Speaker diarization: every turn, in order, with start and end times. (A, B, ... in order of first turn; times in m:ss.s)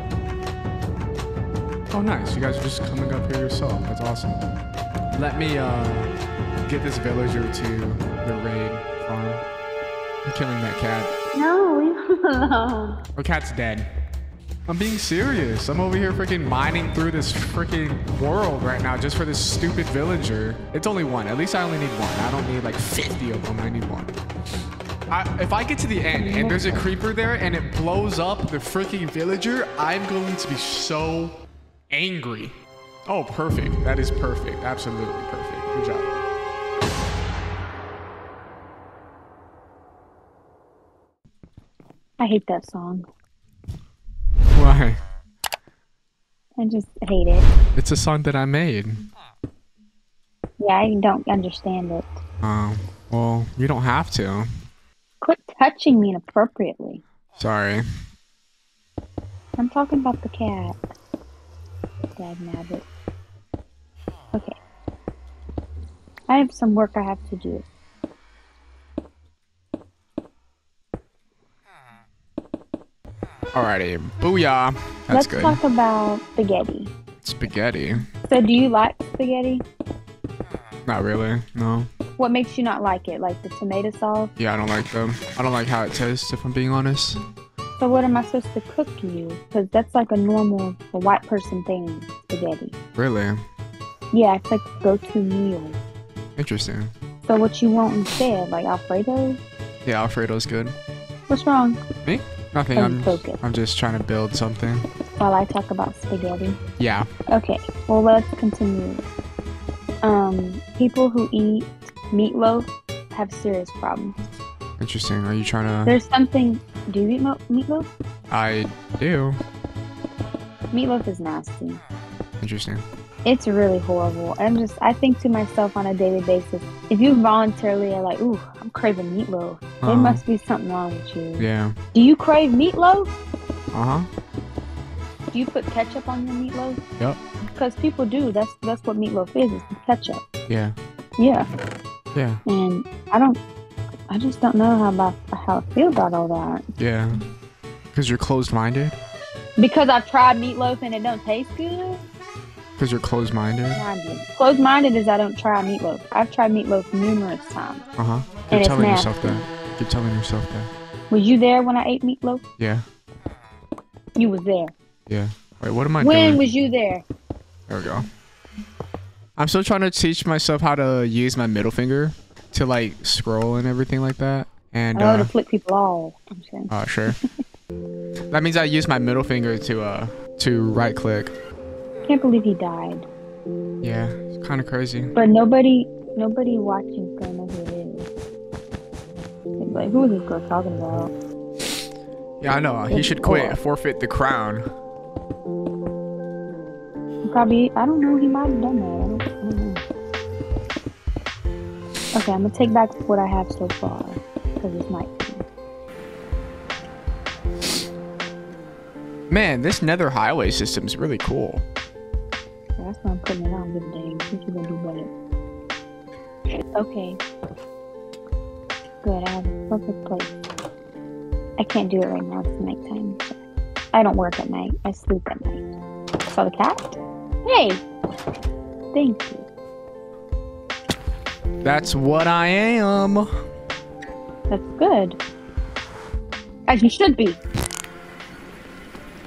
0:01.9-0:04.4 A
0:05.1-0:06.1 A
0:06.6-0:09.4 A
0:10.2-0:11.1 A
0:11.3-0:13.0 B
0:13.2-0:13.9 A
0:14.7-0:24.1 A
0:25.1-0:31.4 A
0:26.1-0:26.8 B
0:31.9-0:32.5 A
0:33.0-0:36.2 A
0:42.2-0:43.0 B
0:44.5-0:45.0 A
0:46.6-0:47.5 B
0:47.7-0:49.0 A
0:50.6-0:52.1 B
0:52.4-0:54.5 A
0:55.2-0:57.0 B
0:57.4-0:57.8 A
0:59.6-1:00.9 B
1:02.2-1:02.8 B
1:06.3-1:07.6 B
1:13.5-1:15.6 A
1:15.1-1:16.9 B
1:17.2-1:18.0 A
1:18.3-1:19.6 B
1:20.8-1:21.9 A
1:22.2-1:24.3 B
1:24.4-1:27.2 A
1:27.8-1:32.8 B
1:32.9-1:33.4 A
1:34.1-1:35.8 B
1:36.4-1:36.9 A
1:37.3-1:39.4 B
1:39.8-1:40.8 A
1:41.3-1:41.8 B
1:42.0-1:44.8 A
1:42.7-1:43.4 B
1:45.2-1:46.6 B
1:46.8-1:47.1 A
1:47.3-1:49.0 B
1:50.0-1:54.2 B
1:54.8-1:56.0 A
1:55.8-1:57.9 B
1:58.3-1:59.4 A
2:00.7-2:01.8 B
2:02.4-2:02.8 A
2:03.2-2:13.1 B
2:09.8-2:10.2 A
2:11.4-2:11.8 A
2:13.7-2:14.1 A
2:15.3-2:16.8 B
2:17.5-2:20.2 B
2:20.5-2:20.8 A
2:21.2-2:21.5 B
2:22.1-2:22.4 A
2:22.4-2:23.4 B
2:24.1-2:26.6 B
2:26.8-2:27.2 A
2:27.9-2:28.9 A
2:29.6-2:32.0 B
2:32.8-2:33.8 A
2:33.7-2:37.8 B
2:38.0-2:40.7 A
2:38.5-2:39.4 B
2:41.1-2:42.4 B
2:42.6-2:42.8 A
2:44.2-2:44.7 B
2:45.1-2:46.4 A
2:46.0-2:47.0 B
2:47.7-2:48.0 A
2:49.4-2:55.3 A
2:54.9-2:57.2 B
2:56.7-2:57.2 A
2:58.3-3:01.3 A
3:02.0-3:03.1 B
3:03.8-3:05.1 A
3:05.1-3:08.1 B
3:09.6-3:11.1 B
3:12.4-3:14.6 A
3:12.9-3:13.6 B
3:17.2-3:19.8 B
3:22.1-3:25.4 B
3:29.3-3:31.6 A
3:32.8-3:35.1 B
3:36.7-3:37.2 B
3:39.0-3:40.3 B
3:41.6-3:43.4 B
3:43.9-3:45.7 B
3:46.3-3:47.8 B
3:48.9-3:49.4 B
3:51.6-3:53.3 A
3:54.5-3:55.2 B
3:56.7-3:57.4 B